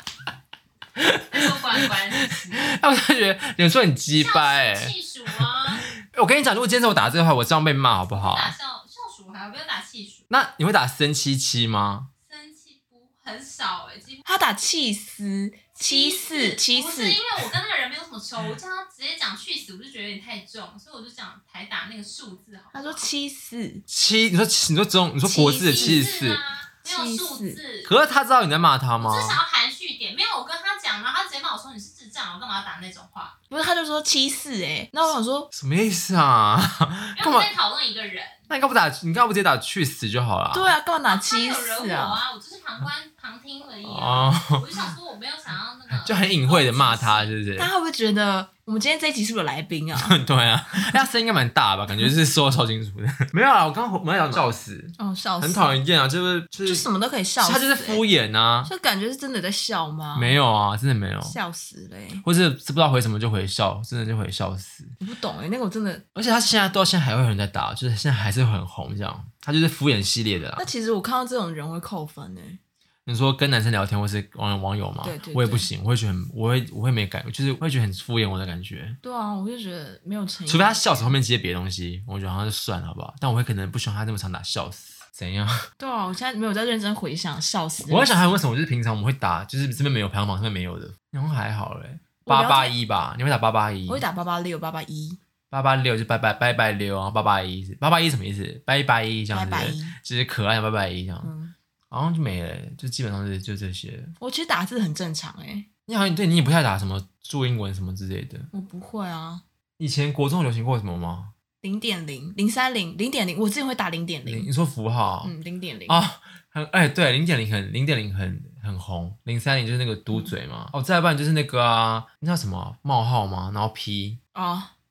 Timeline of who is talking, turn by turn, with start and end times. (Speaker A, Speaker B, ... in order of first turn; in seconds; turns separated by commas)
Speaker A: 1.0-4.9, Speaker B: 1.3-2.7, Speaker B: 4.2-5.9, Speaker A: 6.0-8.6, Speaker B: 8.1-10.2, Speaker A: 10.3-12.1, Speaker B: 12.2-14.2, Speaker C: 14.2-17.2, Speaker B: 15.8-23.0, Speaker C: 22.7-23.8, Speaker A: 23.9-26.4, Speaker C: 25.2-26.1, Speaker B: 25.6-27.9, Speaker C: 26.8-27.6, Speaker A: 27.9-29.4, Speaker B: 29.0-33.4, Speaker C: 33.5-35.5, Speaker A: 35.5-37.5, Speaker B: 37.2-38.4, Speaker A: 38.5-40.7, Speaker C: 40.5-42.2, Speaker B: 41.1-47.3, Speaker A: 43.8-44.7, Speaker A: 45.9-47.7, Speaker C: 47.6-50.2, Speaker A: 50.0-56.9, Speaker C: 50.7-51.0, Speaker C: 55.0-55.8, Speaker C: 56.6-58.0, Speaker A: 57.4-58.7, Speaker C: 58.6-60.4, Speaker A: 60.1-61.4, Speaker C: 61.2-62.2, Speaker A: 62.2-64.9, Speaker C: 65.0-66.0, Speaker A: 66.2-70.7, Speaker C: 70.6-72.6, Speaker A: 73.1-79.0, Speaker C: 75.0-75.7, Speaker C: 79.0-81.1, Speaker A: 80.5-85.7, Speaker C: 85.8-88.3, Speaker A: 87.9-94.0, Speaker C: 92.3-92.8, Speaker C: 93.9-95.2, Speaker A: 95.5-101.3, Speaker C: 99.3-100.0, Speaker C: 101.2-101.5, Speaker A: 101.9-104.1, Speaker C: 104.2-105.7, Speaker A: 105.9-108.5, Speaker C: 108.5-109.4, Speaker A: 109.8-111.3, Speaker C: 111.6-114.5, Speaker A: 114.2-115.3, Speaker C: 115.2-116.0, Speaker A: 115.9-124.2, Speaker C: 124.3-124.7